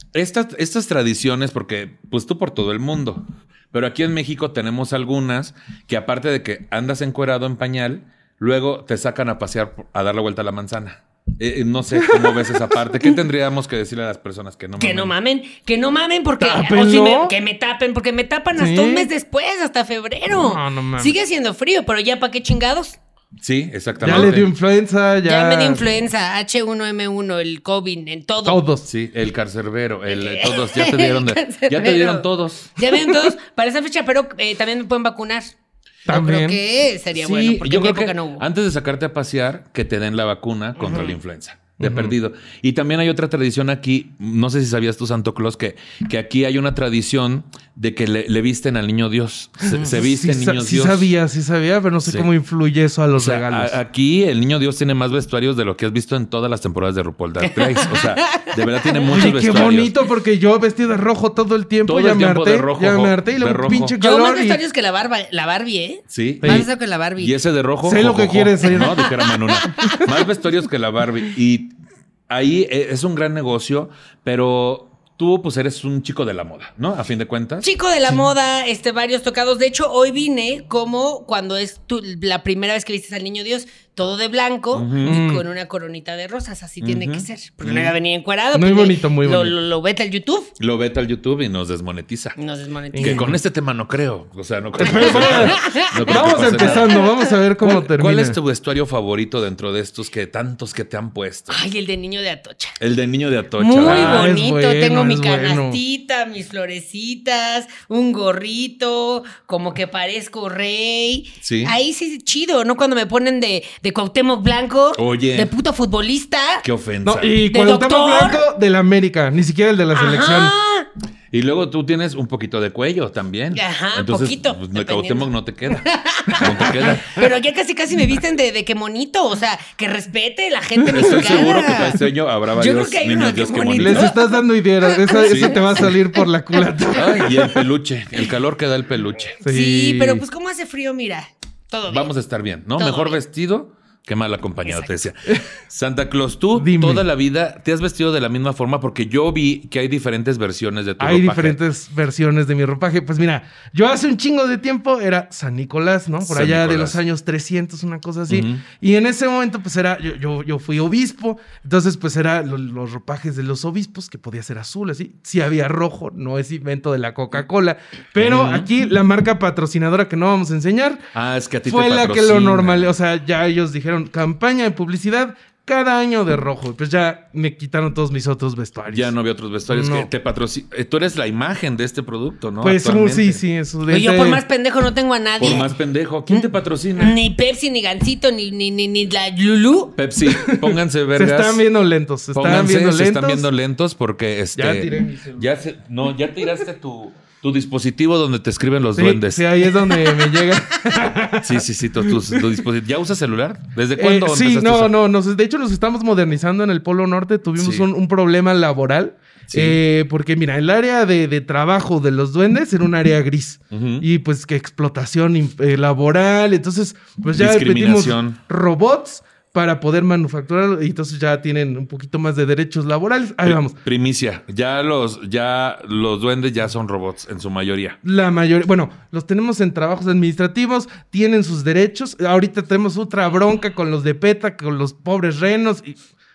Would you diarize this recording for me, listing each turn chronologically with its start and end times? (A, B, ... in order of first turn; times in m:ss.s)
0:00.1-0:15.1 A
0:12.0-0:12.8 B
0:14.8-0:23.0 C
0:16.4-0:17.3 B
0:18.5-0:19.1 B
0:20.3-0:21.2 B
0:23.4-0:24.5 A
0:24.0-0:25.9 B
0:25.2-0:28.6 C
0:28.4-0:28.9 B
0:28.8-0:32.7 A
0:30.1-0:35.5 C
0:36.1-0:36.6 B
0:36.1-0:38.4 C
0:37.1-0:51.1 A
0:40.8-0:41.1 C
0:41.8-0:42.1 B
0:49.6-0:53.7 B
0:53.2-0:59.9 A
0:57.4-0:59.1 C
0:59.1-1:04.6 B
1:01.8-1:04.0 A
1:04.0-1:07.3 C
1:06.1-1:11.7 A
1:06.4-1:06.7 B
1:07.8-1:09.2 B
1:09.0-1:10.1 C
1:12.3-1:17.7 A
1:17.6-1:30.5 C
1:24.7-1:25.1 A
1:25.0-1:25.4 B
1:26.8-1:27.9 A
1:28.5-1:29.6 B
1:30.6-1:32.4 A
1:32.4-1:33.3 C
1:32.9-1:33.4 B
1:33.0-1:37.0 A
1:34.8-1:38.4 B
1:34.8-1:37.3 C
1:37.6-1:41.6 A
1:41.5-1:42.8 C
1:42.8-1:44.3 A
1:43.6-1:56.6 C
1:43.8-1:45.8 B
1:51.4-1:51.7 A
1:55.0-1:55.5 A
1:56.6-1:57.4 A
1:57.0-2:00.5 B
1:57.5-1:58.4 C
1:59.9-2:00.9 C
2:01.3-2:05.8 A
2:03.5-2:12.0 C
2:06.4-2:07.1 A
2:10.9-2:11.3 B
2:10.9-2:14.1 A
2:12.5-2:14.3 C
2:13.7-2:17.5 B
2:14.8-2:16.3 C
2:15.2-2:15.6 A
2:16.9-2:19.4 A
2:19.4-2:22.1 C
2:19.4-2:20.2 B
2:21.9-2:31.6 A
2:22.8-2:23.2 C
2:24.6-2:24.9 C
2:26.5-2:27.0 B
2:31.0-2:51.0 B
2:36.2-2:37.0 A
2:38.3-2:38.6 A
2:48.2-2:48.7 A
2:51.1-2:52.9 A
2:51.6-2:59.1 B
2:58.9-3:03.4 A
2:59.7-3:00.1 B
3:02.6-3:04.4 B
3:03.9-3:05.7 C
3:05.4-3:07.2 A
3:06.3-3:10.0 C
3:10.0-3:11.6 A
3:10.2-3:13.5 B
3:12.3-3:19.4 A
3:14.6-3:15.5 B
3:19.0-3:22.5 B
3:21.4-3:24.9 A
3:24.0-3:43.8 B
3:27.6-3:27.9 A
3:29.5-3:29.8 A
3:33.7-3:34.0 A
3:37.3-3:38.4 A
3:43.4-3:48.0 A
3:48.0-3:56.0 B